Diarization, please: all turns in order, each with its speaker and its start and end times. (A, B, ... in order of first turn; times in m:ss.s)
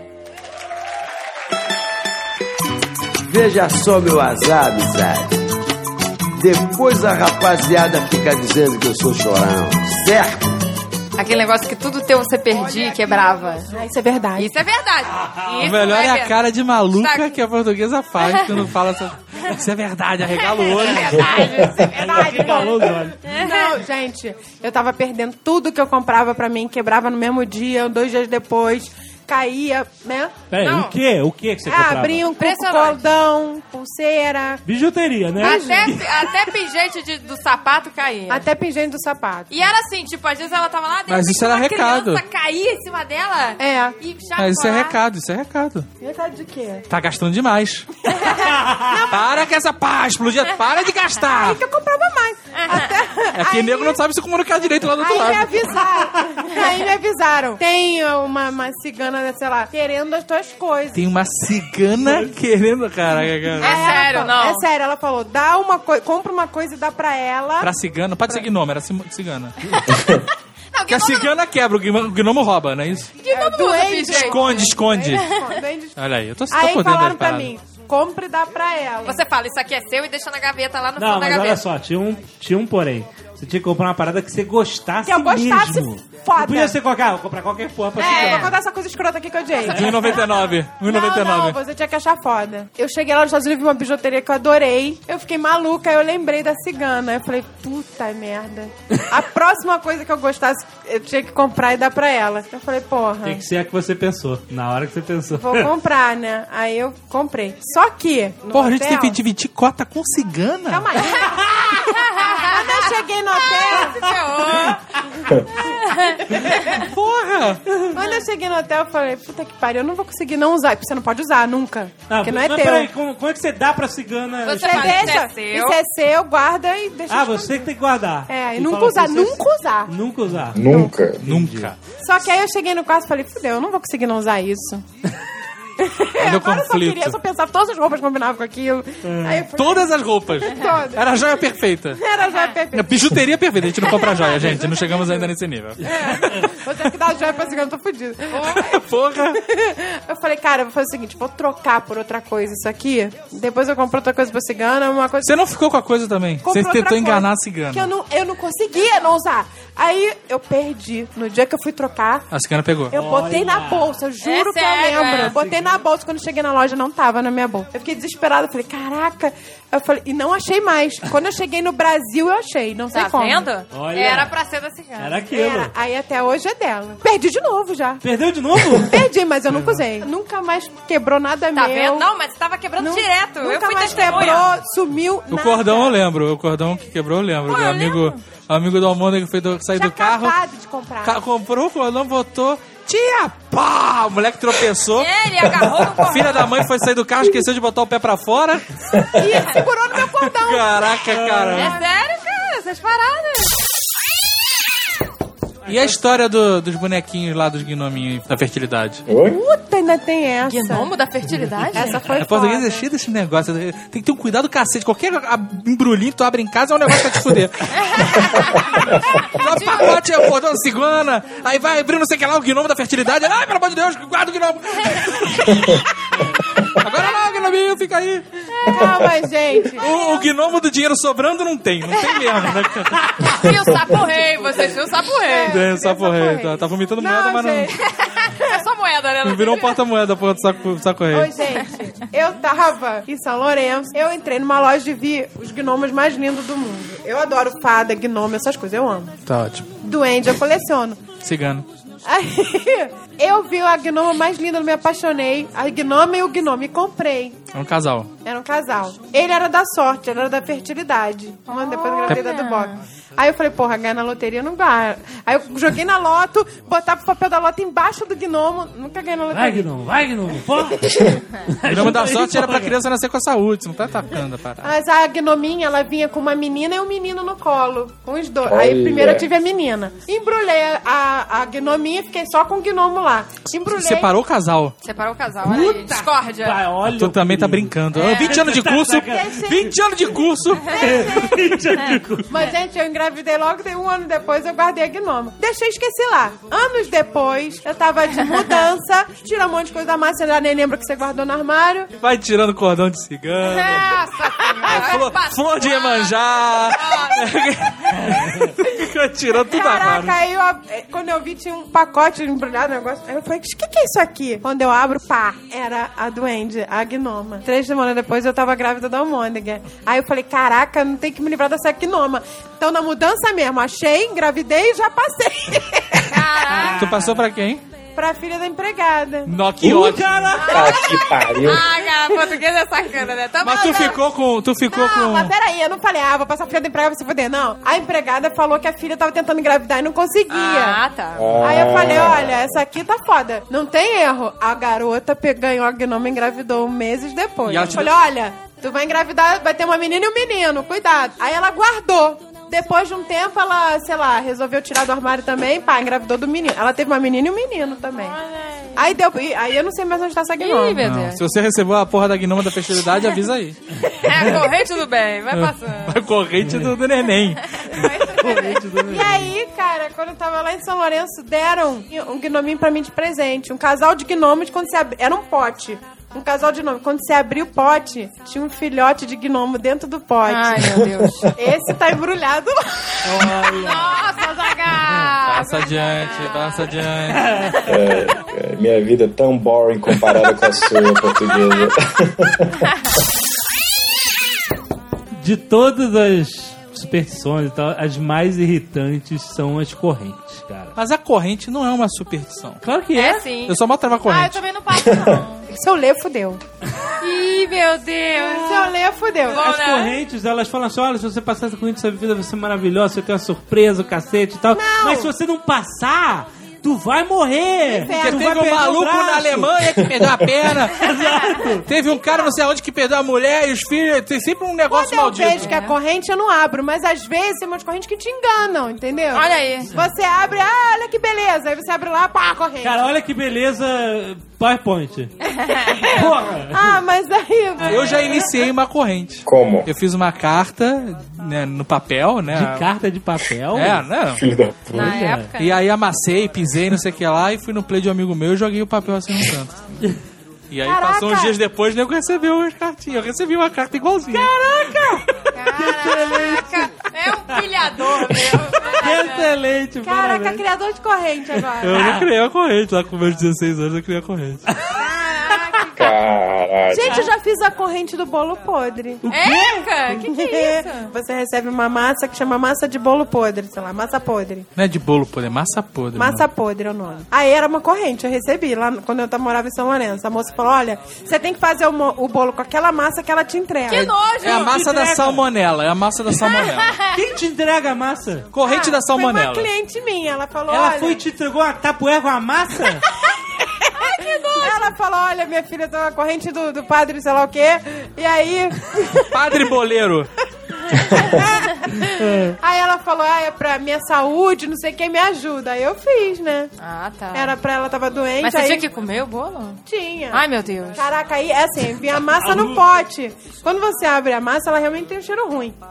0:03.2-0:05.4 A
0:06.4-0:10.5 A
0:11.2-0:13.7 B
0:12.7-0:14.5 C
0:14.4-0:16.4 B
0:15.6-0:21.4 D
0:16.9-0:17.4 B
0:18.2-0:18.5 B
0:20.4-0:22.6 B
0:21.5-0:30.4 C
0:21.9-0:23.2 E
0:23.2-0:23.7 B
0:30.5-0:32.2 E
0:30.6-0:31.0 B
0:31.6-0:34.6 C
0:32.3-0:33.0 B
0:34.6-0:36.0 E
0:35.4-0:36.0 C
0:35.4-0:38.4 B
0:38.3-0:39.5 C
0:39.5-0:45.0 B
0:41.1-0:42.2 D
0:43.6-0:44.0 C
0:44.4-0:45.9 D
0:46.0-0:46.8 C
0:46.9-0:47.9 D
0:48.1-0:49.4 C
0:48.1-0:48.4 B
0:48.5-0:48.9 E
0:49.1-0:51.6 D
0:51.2-0:54.0 C
0:52.5-0:52.9 B
0:53.3-0:55.8 D
0:54.9-1:01.1 C
1:00.9-1:03.8 D
1:02.0-1:02.3 E
1:03.5-1:07.7 C
1:03.6-1:04.6 B
1:07.6-1:09.6 D
1:10.7-1:11.3 B
1:10.9-1:13.1 D
1:13.2-1:16.0 C
1:13.3-1:14.7 B
1:14.1-1:15.2 D
1:15.2-1:15.5 B
1:16.0-1:17.5 D
1:16.5-1:19.2 C
1:19.0-1:21.6 B
1:21.0-1:28.5 E
1:25.0-1:26.8 C
1:28.0-1:43.4 C
1:28.0-1:28.6 B
1:29.6-1:30.3 B
1:29.7-1:31.6 D
1:43.2-1:45.7 E
1:45.4-1:49.2 C
1:48.5-1:51.1 D
1:50.7-1:54.2 C
1:51.9-1:55.0 B
1:55.6-1:56.8 B
1:56.8-1:57.6 D
1:57.9-2:02.9 C
2:02.1-2:04.8 E
2:04.4-2:05.8 B
2:04.5-2:07.7 C
2:07.1-2:11.7 E
2:08.3-2:09.9 C
2:10.5-2:11.2 F
2:11.2-2:11.8 D
2:12.0-2:14.8 C
2:15.8-2:21.1 C
2:16.2-2:17.2 D
2:19.0-2:19.4 E
2:19.5-2:22.0 D
2:21.9-2:23.1 C
2:22.3-2:22.6 B
2:22.7-2:25.9 D
2:23.7-2:35.3 C
2:25.9-2:26.4 E
2:28.4-2:28.6 B
2:28.4-2:29.4 D
2:35.2-2:37.9 D
2:36.4-2:42.3 C
2:42.3-2:42.9 D
2:42.9-2:53.5 C
2:42.9-2:44.0 E
2:44.2-2:45.4 B
2:45.2-2:45.8 E
2:52.9-2:55.2 B
2:53.7-2:54.3 E
2:55.0-2:55.7 E
2:55.3-2:58.0 C
2:58.0-2:59.0 E
2:58.8-3:02.1 C
2:59.5-2:59.8 E
3:01.5-3:04.5 B
3:02.8-3:06.0 C
3:04.0-3:04.4 D
3:05.3-3:10.3 D
3:07.4-3:08.2 B
3:09.7-3:11.2 C
3:11.0-3:18.7 D
3:14.9-3:16.6 B
3:18.9-3:19.3 F
3:19.2-3:21.0 C
3:19.2-3:19.6 B
3:20.2-3:21.7 D
3:21.1-3:21.7 E
3:21.5-3:23.5 B
3:21.6-3:21.8 C
3:25.6-3:26.0 E
3:25.6-3:29.0 D
3:29.1-3:29.4 F
3:29.2-3:30.9 C
3:30.4-3:32.1 B
3:31.7-3:32.8 C
3:32.1-3:37.7 D
3:37.7-3:40.0 B
3:39.2-3:45.9 D
3:46.8-3:48.3 D
3:48.5-3:50.0 C
3:49.8-3:53.5 D
3:52.0-3:52.2 B
3:53.3-3:55.6 B
3:54.2-3:57.7 C
3:55.5-3:57.7 D
3:57.7-3:59.8 B
3:59.2-4:01.3 D
4:01.1-4:09.1 C
4:09.3-4:09.7 D
4:09.8-4:11.0 C
4:11.2-4:11.6 D
4:12.0-4:17.4 C
4:17.5-4:18.1 D
4:18.2-4:29.6 C
4:21.5-4:22.8 B
4:29.3-4:32.7 E
4:31.7-4:34.7 D
4:34.6-4:44.1 C
4:38.4-4:39.3 F
4:43.7-4:44.7 D
4:44.8-4:46.6 B
4:45.4-4:49.3 E
4:46.8-4:50.7 D
4:48.0-4:48.3 B
4:49.0-4:49.8 C
4:50.7-4:51.7 C
4:50.7-4:52.3 E
4:52.3-5:01.9 C
4:58.2-4:58.6 B
5:02.0-5:04.0 D
5:03.4-5:07.4 B
5:04.5-5:04.9 C
5:04.6-5:10.2 D
5:07.9-5:08.5 E
5:09.5-5:26.3 C
5:26.1-5:26.8 B
5:26.5-5:27.2 E
5:26.7-5:27.6 D
5:28.0-5:29.3 C
5:29.3-5:30.4 D
5:29.6-5:30.9 E
5:30.3-5:34.0 B
5:30.5-5:31.7 F
5:33.4-5:35.3 D
5:34.7-5:40.8 C
5:40.3-5:41.5 B
5:41.2-5:42.6 F
5:41.4-5:58.2 C
5:47.4-5:47.9 D
5:58.1-5:58.8 B
5:58.8-6:00.8 C
6:00.4-6:01.2 B
6:00.8-6:03.6 D
6:03.9-6:06.0 B
6:05.3-6:07.5 D
6:06.4-6:06.7 E
6:07.4-6:08.8 B
6:08.1-6:09.3 E
6:08.8-6:20.7 C
6:20.2-6:21.3 B
6:21.3-6:23.3 C
6:23.0-6:23.8 E
6:23.6-6:26.9 B
6:25.2-6:27.4 D
6:27.1-6:27.7 E
6:27.6-6:32.7 F
6:31.3-6:31.7 B
6:32.7-6:33.0 B
6:35.2-6:40.8 E
6:40.8-6:42.6 D
6:42.6-6:43.2 E
6:42.9-6:45.5 B
6:43.4-6:44.4 D
6:45.5-6:46.4 C
6:47.0-6:48.6 B
6:48.2-6:49.4 C
6:49.3-6:50.0 B
6:49.3-6:59.4 E
6:54.5-6:55.1 C
6:57.6-6:59.5 C
6:57.8-7:00.7 D
7:00.7-7:01.6 E
7:01.0-7:01.4 B
7:01.6-7:05.5 D
7:02.0-7:02.3 C
7:04.7-7:12.8 C
7:05.4-7:05.8 B
7:09.1-7:09.7 B
7:12.6-7:15.1 E
7:15.2-7:16.0 B
7:15.8-7:16.8 E
7:16.5-7:18.4 C
7:17.6-7:18.0 E
7:17.7-7:22.7 D
7:19.2-7:19.7 F
7:22.3-7:23.8 E
7:23.5-7:24.2 D
7:24.2-7:24.9 F
7:24.7-7:25.6 B
7:24.7-7:25.3 E
7:25.4-7:29.6 D
7:30.5-7:34.3 D
7:30.6-7:31.4 C
7:34.1-7:35.0 C
7:35.3-7:39.3 B
7:35.5-7:36.8 E
7:38.7-7:40.4 E
7:39.8-7:41.9 C
7:41.6-7:44.4 D
7:41.6-7:42.0 E
7:44.8-7:45.9 C
7:44.8-7:45.9 B
7:45.8-7:47.0 F
7:46.7-7:49.0 C
7:49.0-7:50.0 E
7:49.1-7:50.9 B
7:50.0-7:54.5 C
7:54.6-7:56.2 D
7:56.0-8:03.9 C
8:03.6-8:04.6 B
8:03.7-8:06.8 D
8:04.2-8:05.2 E
8:06.2-8:07.0 B
8:06.9-8:08.3 E
8:08.3-8:09.5 D
8:08.4-8:11.0 C
8:10.5-8:12.8 E
8:13.6-8:19.4 C
8:13.8-8:14.7 B
8:19.1-8:20.1 D
8:20.8-8:21.8 C
8:22.0-8:22.4 E
8:22.4-8:26.5 C
8:26.6-8:27.4 B
8:27.1-8:28.7 C
8:28.2-8:29.6 B
8:29.6-8:30.2 C
8:30.1-8:30.8 B
8:30.7-8:35.6 C
8:32.2-8:32.6 E